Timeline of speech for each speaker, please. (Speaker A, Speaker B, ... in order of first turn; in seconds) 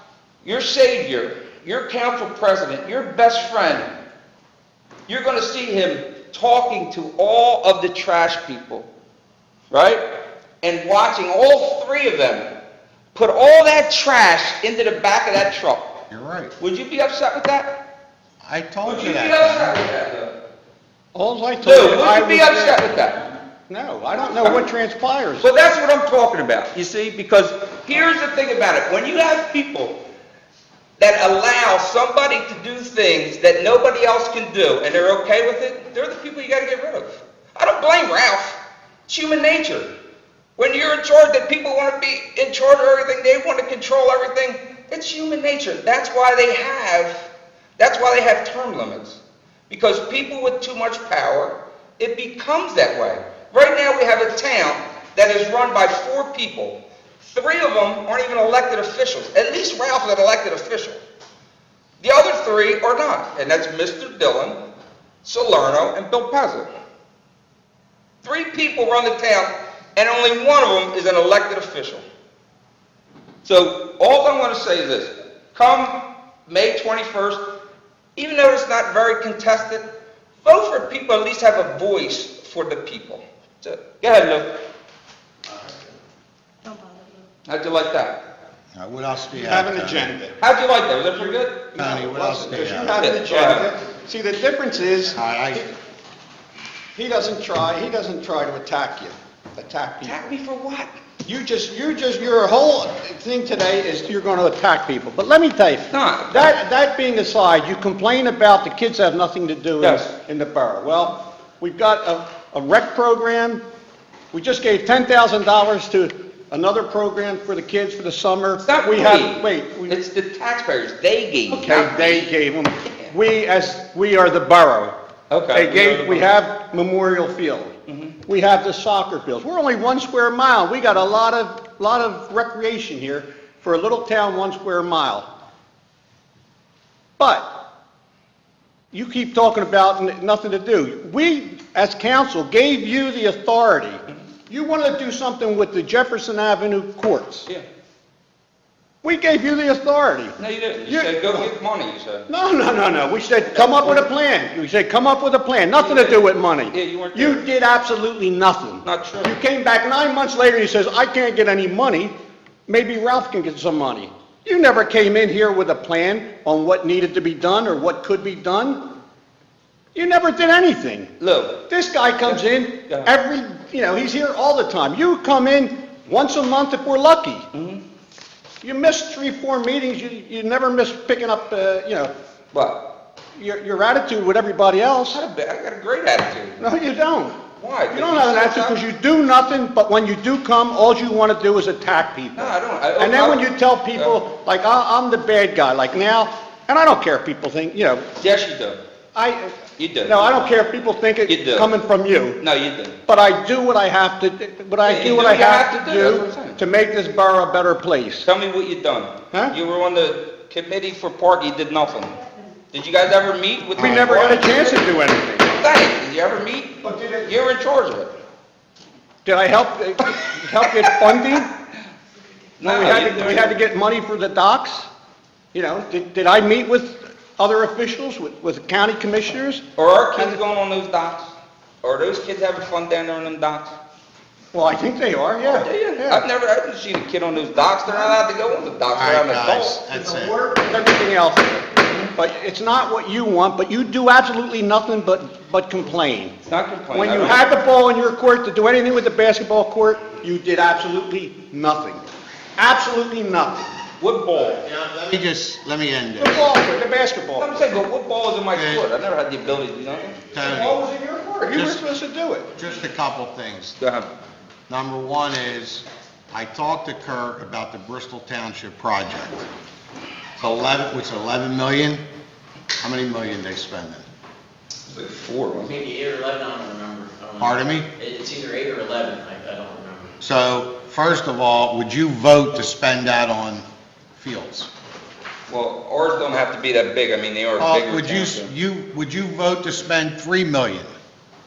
Speaker A: 0.4-3.9, 5.1-8.9, 9.7-10.0, 10.6-12.5, 13.1-16.0, 16.6-17.8, 18.8-20.3, 21.6-23.3, 24.1-24.7, 25.4-30.0, 31.0-39.9, 40.6-61.0, 62.0-64.6, 65.2-66.7, 68.2-72.1, 73.4-77.5, 78.2-79.9, 80.4-84.6, 87.5-88.2, 90.4-91.7, 93.0-93.7, 100.0-100.9, 105.9-106.6, 109.8-110.1, 118.6-122.3, 122.9-123.1, 125.3-126.3, 127.9-128.2, 150.4-152.3, 153.5-154.1, 155.7-157.5, 158.8-159.3, 171.2-171.6, 172.2-173.1, 177.5-177.8, 182.5-182.8, 185.1-186.6, 187.6-188.8, 192.3-194.2, 198.2-198.8, 199.8-200.6, 201.3-201.7, 202.4-203.0, 204.8-206.6, 208.2-212.2, 212.7-214.9, 215.4-218.2, 222.6-223.6, 229.8-231.3, 231.8-233.8, 235.4-239.8, 246.5-247.4, 254.0-254.7, 257.4-260.2, 263.7-264.1, 274.9-275.7, 285.5-288.5
Speaker B: 16.1-16.5, 18.4-19.8, 88.7-90.1, 91.8-93.0, 95.1-95.6, 238.9-240.4, 254.4-256.5, 258.5-258.9, 260.3-260.8, 261.5-261.8, 262.5-263.7, 264.7-269.5, 270.4-272.0, 272.8-274.0, 277.4-277.9, 280.2-284.7, 287.6-290.9
Speaker C: 21.1-23.0, 23.7-25.5, 89.3-90.4, 91.8-95.7, 97.0-100.2, 101.2-113.6, 114.3-120.0, 121.5-125.0, 125.5-127.8, 128.3-135.3, 137.2-137.6, 138.9-147.5, 149.0-151.5, 152.3-162.2, 162.7-168.8, 169.9-171.1, 171.7-177.5, 178.6-182.1, 183.4-185.2, 186.6-187.4, 187.9-198.1, 199.2-202.4, 203.1-208.3, 213.8-215.6, 216.8-217.3, 219.2-221.5, 222.6-224.9, 225.5-229.7, 234.5-236.3, 237.9-238.2, 239.9-246.3, 246.9-252.0, 252.6-253.7, 256.2-257.8, 260.3-262.5
Speaker D: 275.6-280.1